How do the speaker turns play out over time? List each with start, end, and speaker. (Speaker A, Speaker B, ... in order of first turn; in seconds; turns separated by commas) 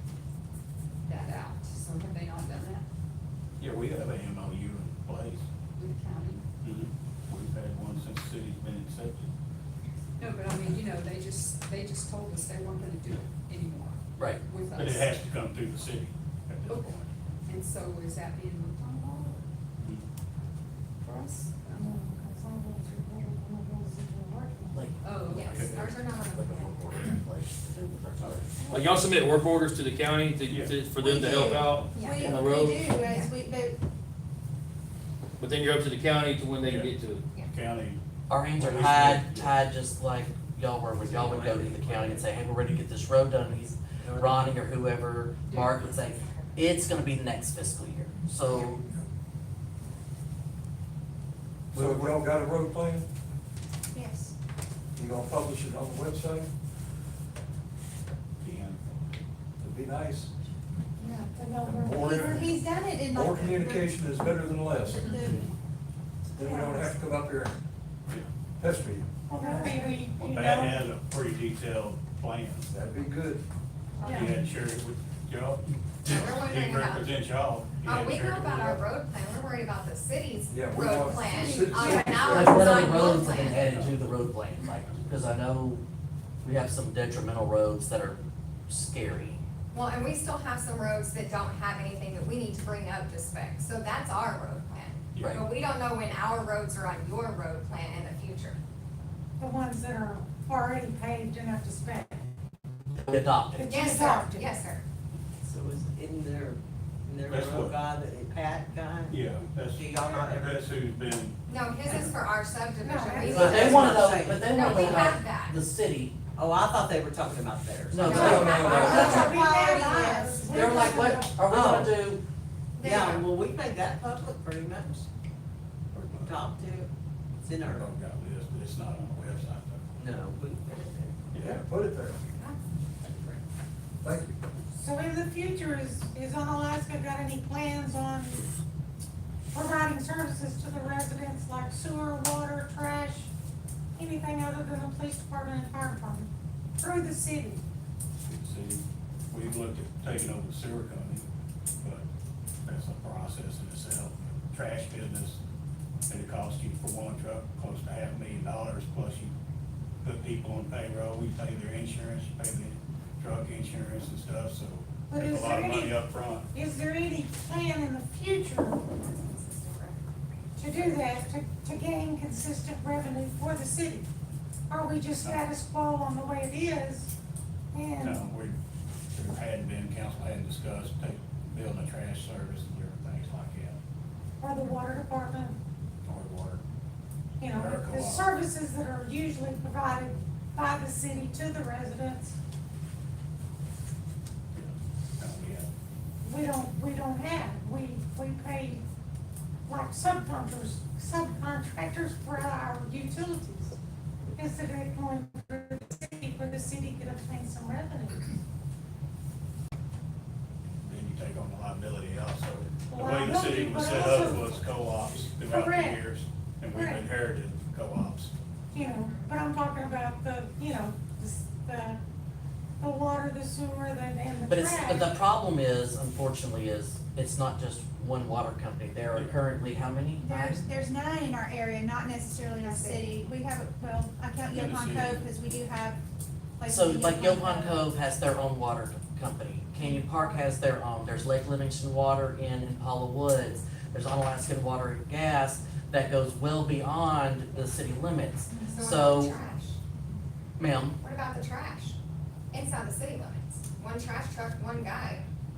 Speaker A: 1.1-2.8, Speaker B: 3.6-5.4, Speaker A: 5.8-6.4, Speaker B: 6.6-9.3, Speaker A: 10.2-15.2, Speaker B: 14.7-17.1, Speaker A: 16.7-16.9, Speaker A: 17.5-19.4, Speaker A: 21.0-22.0, Speaker C: 21.7-24.8, Speaker D: 24.7-28.6, Speaker A: 25.0-25.6, Speaker E: 25.3-27.1, Speaker B: 25.5-25.8, Speaker F: 28.7-32.8, Speaker B: 30.5-30.7, Speaker G: 31.0-33.8, Speaker E: 31.9-32.4, Speaker E: 33.0-33.3, Speaker F: 35.4-37.2, Speaker B: 36.6-36.9, Speaker B: 37.5-38.0, Speaker D: 38.3-48.8, Speaker B: 38.6-39.5, Speaker H: 41.2-42.1, Speaker A: 45.5-45.7, Speaker D: 51.7-52.1, Speaker I: 51.7-53.1, Speaker G: 53.9-54.3, Speaker I: 55.0-56.5, Speaker B: 58.4-59.2, Speaker I: 59.6-60.3, Speaker C: 61.0-62.5, Speaker I: 61.6-62.5, Speaker G: 62.0-63.9, Speaker I: 63.0-65.2, Speaker G: 64.8-65.5, Speaker I: 66.3-67.5, Speaker G: 66.4-66.9, Speaker I: 68.6-69.1, Speaker C: 69.3-70.8, Speaker B: 70.2-72.7, Speaker I: 72.7-73.4, Speaker C: 74.0-74.3, Speaker E: 74.0-74.3, Speaker B: 74.0-78.8, Speaker E: 76.1-77.1, Speaker E: 77.8-83.7, Speaker I: 80.5-84.0, Speaker D: 82.2-85.8, Speaker D: 86.4-89.4, Speaker E: 89.7-98.6, Speaker B: 95.2-95.4, Speaker C: 99.4-102.3, Speaker D: 103.0-103.8, Speaker C: 103.5-104.4, Speaker E: 103.6-104.8, Speaker H: 105.5-109.1, Speaker B: 107.3-107.8, Speaker B: 109.1-112.1, Speaker H: 109.8-110.5, Speaker E: 111.5-115.5, Speaker C: 112.8-113.5, Speaker D: 113.2-116.1, Speaker H: 113.4-114.5, Speaker H: 116.4-118.5, Speaker D: 117.9-119.2, Speaker I: 118.0-119.1, Speaker E: 118.0-119.7, Speaker C: 118.2-121.4, Speaker G: 118.6-120.7, Speaker D: 120.4-122.2, Speaker H: 121.5-121.9, Speaker E: 122.8-123.2, Speaker H: 122.8-125.0, Speaker B: 125.9-126.4, Speaker H: 126.3-126.8, Speaker H: 127.4-127.8, Speaker B: 127.6-129.9, Speaker H: 130.0-131.1, Speaker B: 131.3-131.6, Speaker I: 131.4-132.2, Speaker E: 133.1-133.4, Speaker I: 134.0-134.4, Speaker C: 134.8-138.4, Speaker C: 139.5-143.3, Speaker C: 143.9-147.6, Speaker B: 148.3-151.2, Speaker B: 151.8-152.1, Speaker B: 152.7-155.4, Speaker B: 156.1-159.3, Speaker B: 160.0-166.4, Speaker C: 165.1-166.0, Speaker C: 166.5-168.8, Speaker E: 168.9-170.0, Speaker C: 170.6-174.1, Speaker E: 170.6-171.2, Speaker C: 174.7-177.1, Speaker C: 177.7-178.2, Speaker B: 178.0-178.6, Speaker B: 179.1-183.8, Speaker C: 184.4-185.6, Speaker B: 186.1-186.6, Speaker C: 187.4-192.3, Speaker B: 187.5-188.3, Speaker B: 194.5-195.7, Speaker C: 196.2-198.8, Speaker C: 199.7-203.8, Speaker C: 204.3-208.4, Speaker B: 210.8-218.3, Speaker C: 212.9-214.6, Speaker C: 215.4-216.0, Speaker C: 216.7-217.0, Speaker C: 218.7-222.0, Speaker E: 218.8-219.2, Speaker C: 222.8-225.1, Speaker D: 224.5-230.6, Speaker G: 230.2-236.0, Speaker E: 232.6-233.1, Speaker B: 234.5-235.3, Speaker G: 236.6-237.8, Speaker D: 236.7-249.3, Speaker E: 248.7-249.8, Speaker D: 250.6-251.0, Speaker E: 251.0-252.0, Speaker E: 252.5-255.2